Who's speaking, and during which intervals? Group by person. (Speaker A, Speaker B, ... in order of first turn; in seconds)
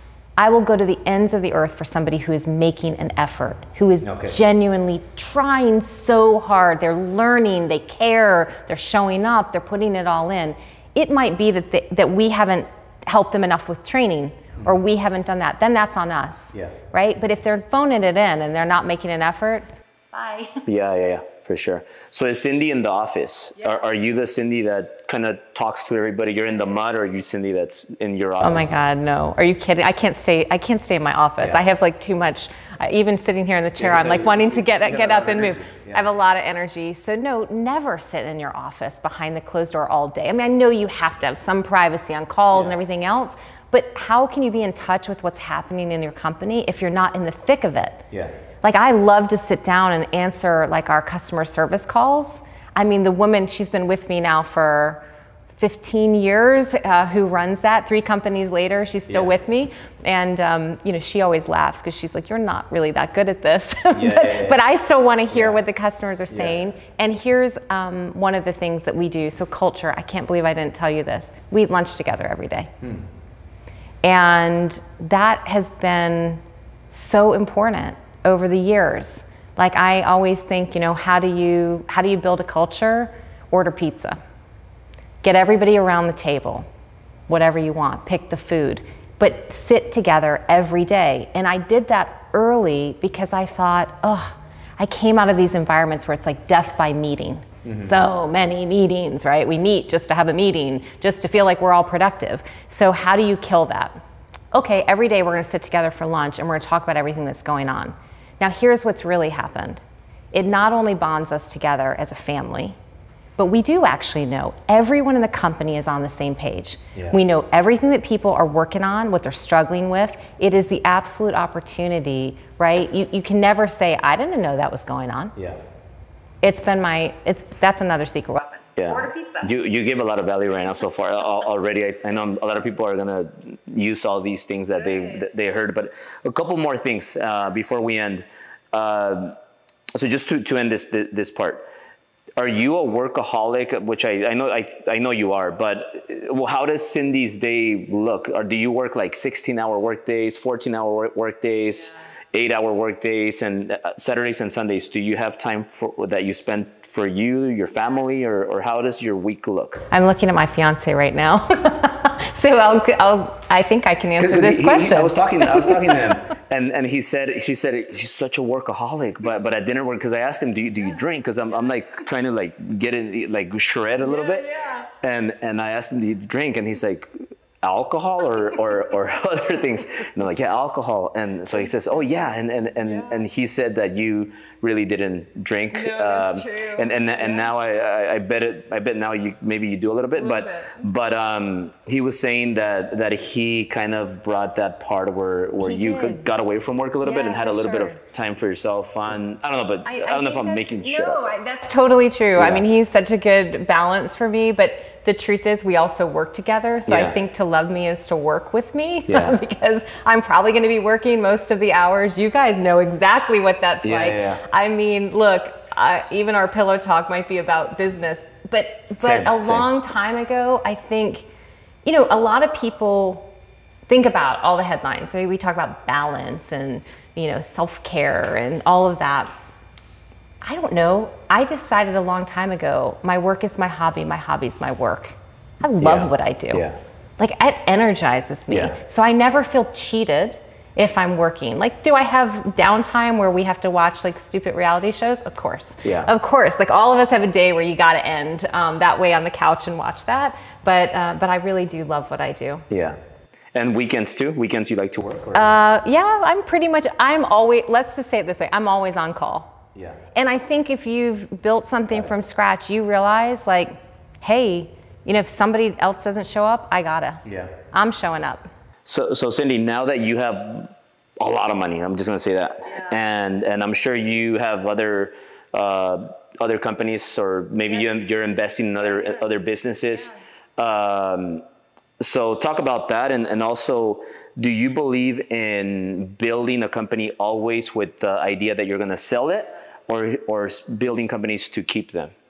Speaker A: 0.4-20.6, 28.4-48.0, 48.6-55.0, 55.6-72.7, 74.0-84.2, 85.2-86.7, 87.3-104.0, 104.5-109.8, 110.3-112.8, 113.4-125.3, 126.4-129.5, 159.9-166.2, 185.7-187.5, 190.2-190.8, 195.6-196.3, 197.0-198.0, 199.8-221.3, 221.8-223.3, 223.9-229.3, 230.4-236.7, 237.2-252.7, 255.3-259.5, 260.1-268.5
Speaker B: 4.0-4.3, 20.6-28.7, 31.4-31.6, 33.8-36.1, 42.5-42.8, 59.1-59.3, 63.9-64.6, 65.3-65.6, 66.3-66.6, 97.6-97.9, 128.8-139.4, 139.9-141.7, 142.4-159.8, 164.2-177.1, 177.6-201.2, 202.3-202.6, 206.9-207.2, 209.1-209.4, 213.8-214.4, 219.0-219.7, 235.8-236.8, 238.5-238.7, 245.8-246.1, 252.7-253.0, 253.5-255.6, 259.7-260.0, 267.2-267.5, 268.9-281.4, 282.0-292.1